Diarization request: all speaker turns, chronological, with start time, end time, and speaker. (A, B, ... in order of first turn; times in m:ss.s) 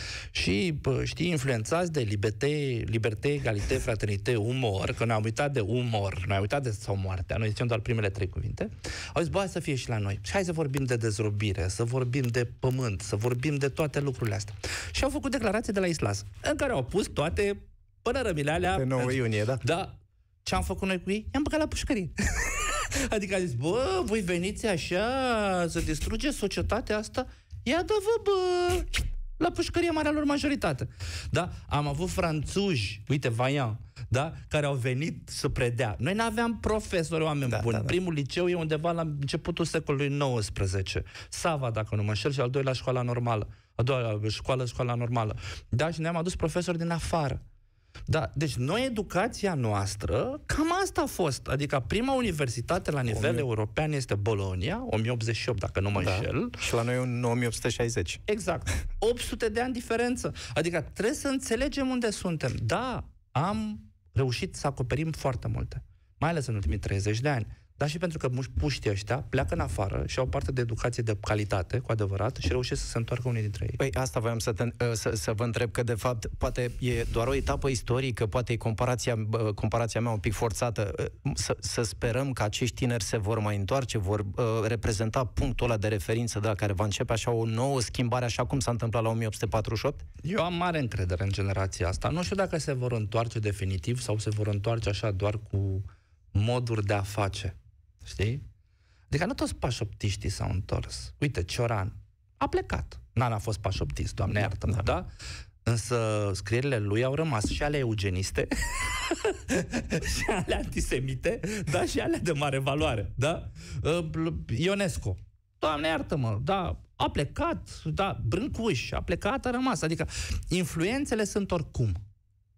0:00.3-0:47.4 A
0:18.8-0:19.6 B
0:37.5-0:37.9 B
0:48.1-0:56.6 A
0:53.1-0:53.4 B
0:56.0-0:58.2 B
0:58.3-1:13.8 A
1:13.8-1:30.0 B
1:30.2-1:38.4 A
1:39.1-1:45.1 A
1:45.6-2:02.0 A